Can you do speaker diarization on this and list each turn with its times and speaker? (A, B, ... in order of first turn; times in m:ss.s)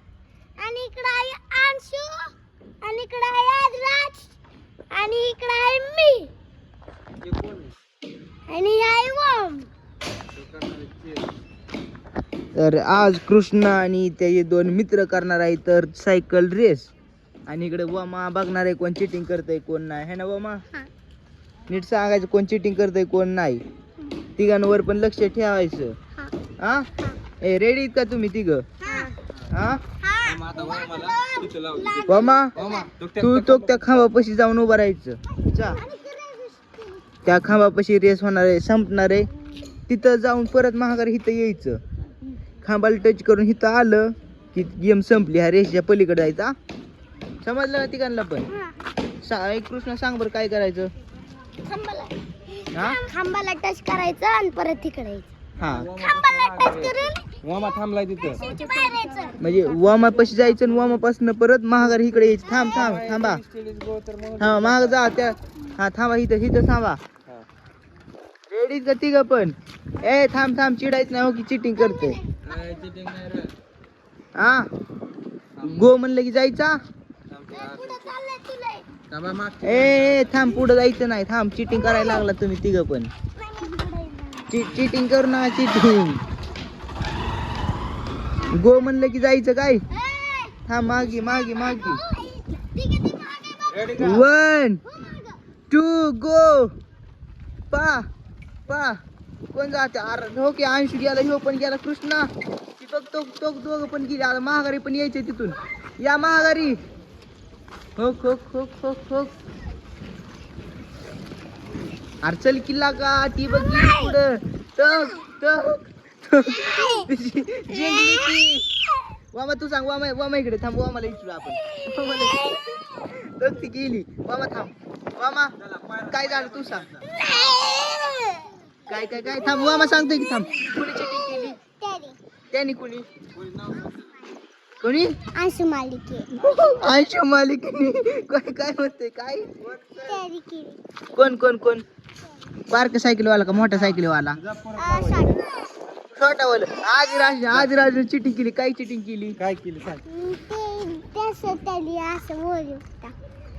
0:00.6-0:04.3 A
0:04.9-0:06.3 A
0:07.2-0:07.7 B
0:08.5-0:09.7 A
0:10.3-0:11.3 B
0:12.5-0:16.9 C
0:17.5-0:20.6 C
0:21.7-0:23.6 C
0:24.4-0:26.0 C
0:26.6-0:26.9 C
0:27.4-0:28.6 C
0:28.8-0:29.2 A
0:29.5-0:29.8 C
0:30.0-0:32.8 A
0:30.2-0:34.1 B
0:32.1-0:32.5 C
0:33.2-0:35.8 C
0:35.6-0:37.0 A
0:37.2-0:39.3 C
0:39.9-0:41.8 C
0:42.6-0:46.5 C
0:47.4-0:48.4 C
0:49.2-0:50.9 C
0:51.6-0:55.3 A
0:52.7-0:53.0 C
0:55.6-0:55.9 C
0:55.6-0:58.4 B
0:56.0-0:57.3 A
0:58.4-0:59.4 A
0:59.4-1:03.4 C
0:59.9-1:01.0 B
1:01.8-1:05.2 B
1:04.4-1:07.0 C
1:08.5-1:12.2 C
1:11.8-1:12.4 A
1:12.4-1:13.5 B
1:14.4-1:14.7 C
1:15.6-1:15.9 B
1:15.6-1:16.8 C
1:17.3-1:18.1 B
1:17.5-1:18.8 A
1:19.1-1:20.6 B
1:19.6-1:23.1 C
1:21.8-1:22.2 A
1:23.4-1:24.7 A
1:24.5-1:26.2 C
1:28.5-1:29.8 C
1:29.9-1:30.6 A
1:30.7-1:32.0 C
1:31.5-1:34.1 A
1:33.7-1:34.2 B
1:34.0-1:34.8 C
1:34.8-1:35.4 A
1:35.7-1:36.7 C
1:37.7-1:38.0 C
1:38.7-1:39.0 C
1:39.5-1:42.3 C
1:42.8-1:46.8 C
1:48.0-1:49.3 C
1:52.2-1:58.6 C
1:56.5-1:57.1 A
1:59.3-2:05.5 C
2:01.8-2:02.7 A
2:05.6-2:07.1 B
2:06.1-2:06.9 C
2:07.0-2:08.5 A
2:08.9-2:11.6 C
2:09.4-2:12.2 A
2:12.5-2:13.1 C
2:13.3-2:14.3 B
2:14.8-2:15.2 C
2:15.3-2:16.4 A
2:16.4-2:20.0 C
2:20.0-2:20.8 A
2:21.2-2:21.8 C
2:22.7-2:24.4 C
2:23.6-2:25.4 B
2:24.8-2:25.7 A
2:26.1-2:29.4 C
2:27.5-2:27.7 B
2:29.4-2:30.0 B
2:30.1-2:33.1 A